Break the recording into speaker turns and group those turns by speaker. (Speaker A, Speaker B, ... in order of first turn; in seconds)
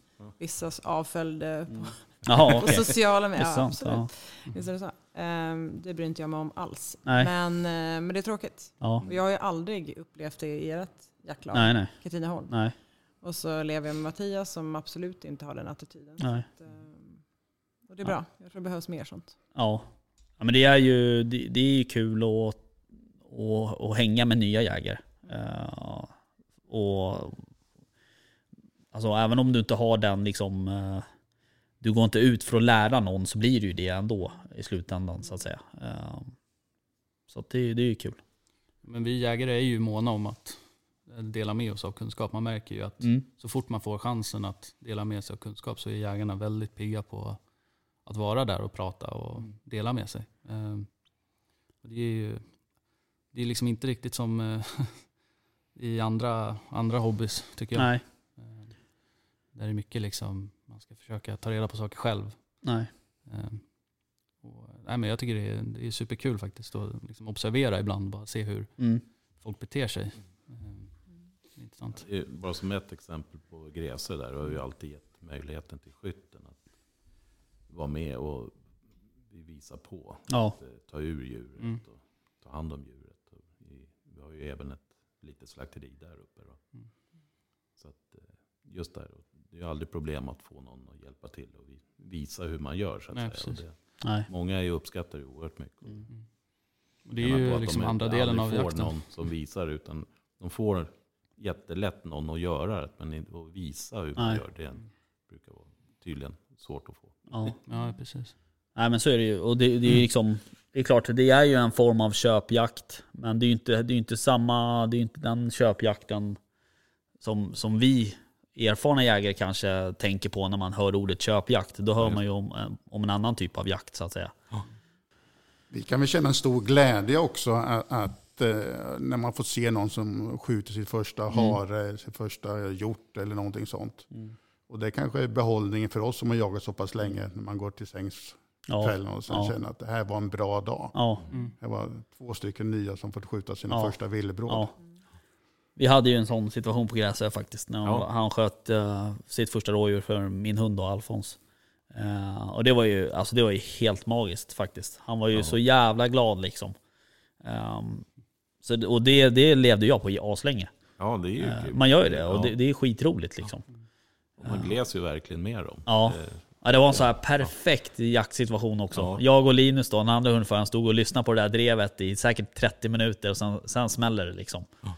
Speaker A: 0.4-12.5, 13.2-17.1, 17.9-19.3
Speaker B: 1.7-4.1, 8.8-9.1, 11.5-11.9, 12.5-12.7, 16.2-16.5, 19.5-19.9, 20.4-22.6, 23.3-26.1, 26.7-27.4, 28.9-31.1, 31.8-36.3, 37.3-38.2, 43.0-43.2, 57.8-58.0, 62.6-62.9, 80.3-80.5, 94.0-94.3, 104.2-104.4, 107.3-107.5, 108.8-116.4, 117.2-124.4, 131.3-131.6, 138.7-139.5, 140.9-141.2, 145.8-151.4, 151.9-156.8, 157.4-158.1, 158.6-160.7, 161.4-163.6, 165.9-174.7
Speaker C: 38.8-47.4, 48.0-51.2, 51.8-52.7, 53.3-55.2, 55.7-58.8, 59.5-62.6, 63.2-63.8, 64.4-71.0, 71.5-72.0, 93.1-93.6, 97.0-99.0, 107.7-108.3
Speaker D: 71.9-76.6, 77.7-78.6, 79.3-86.6, 87.8-96.0, 97.2-107.2, 161.0-162.5, 164.4-167.0, 168.9-169.2
Speaker E: 125.7-134.1, 134.7-141.1, 141.6-144.7